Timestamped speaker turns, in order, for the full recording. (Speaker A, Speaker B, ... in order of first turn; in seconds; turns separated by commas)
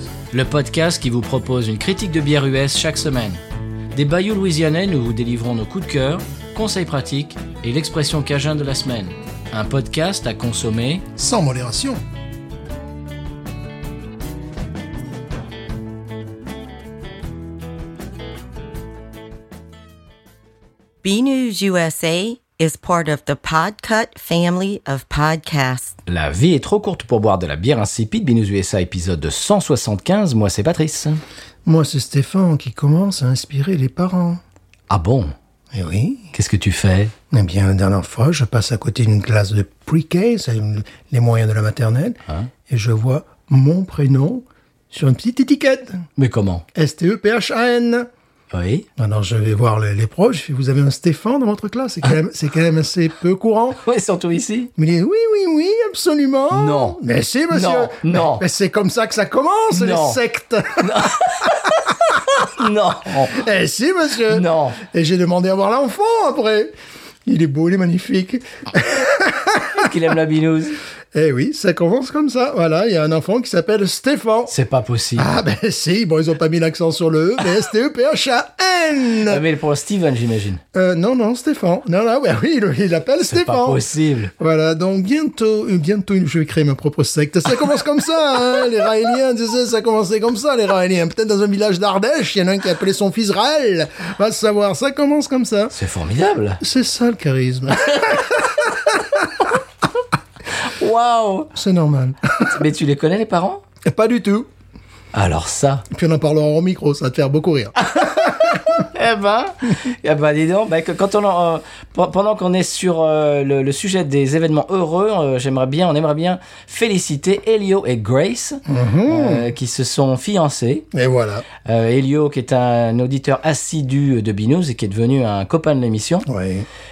Speaker A: 0.3-3.4, Speaker A: 3.9-11.1, Speaker B: 11.2-12.0, Speaker C: 21.0-25.9, Speaker A: 26.1-31.2, Speaker B: 31.6-34.4, Speaker A: 34.9-35.3, Speaker B: 35.7-36.3, Speaker A: 36.3-37.1, Speaker B: 37.3-46.0, Speaker A: 46.2-46.6, Speaker B: 46.7-48.1, Speaker A: 48.5-48.9, Speaker B: 49.0-53.8, Speaker A: 53.8-54.7, Speaker B: 54.8-61.8, Speaker A: 56.5-57.0, Speaker A: 57.5-58.4, Speaker A: 59.7-60.2, Speaker A: 60.8-63.4, Speaker B: 63.1-66.7, Speaker A: 64.3-64.8, Speaker B: 67.2-69.9, Speaker A: 69.7-70.8, Speaker B: 71.1-74.5, Speaker A: 74.5-75.3, Speaker B: 75.2-79.4, Speaker A: 79.3-80.6, Speaker B: 80.7-83.8, Speaker A: 83.3-84.3, Speaker B: 84.4-95.7, Speaker A: 95.7-96.6, Speaker B: 96.6-99.5, Speaker A: 100.5-101.5, Speaker B: 101.5-102.6, Speaker A: 102.4-103.6, Speaker B: 103.8-104.5, Speaker A: 105.1-105.8, Speaker B: 105.9-108.8, Speaker A: 107.8-120.9, Speaker B: 118.7-119.5, Speaker B: 120.9-121.5, Speaker A: 121.6-126.3, Speaker B: 126.3-126.7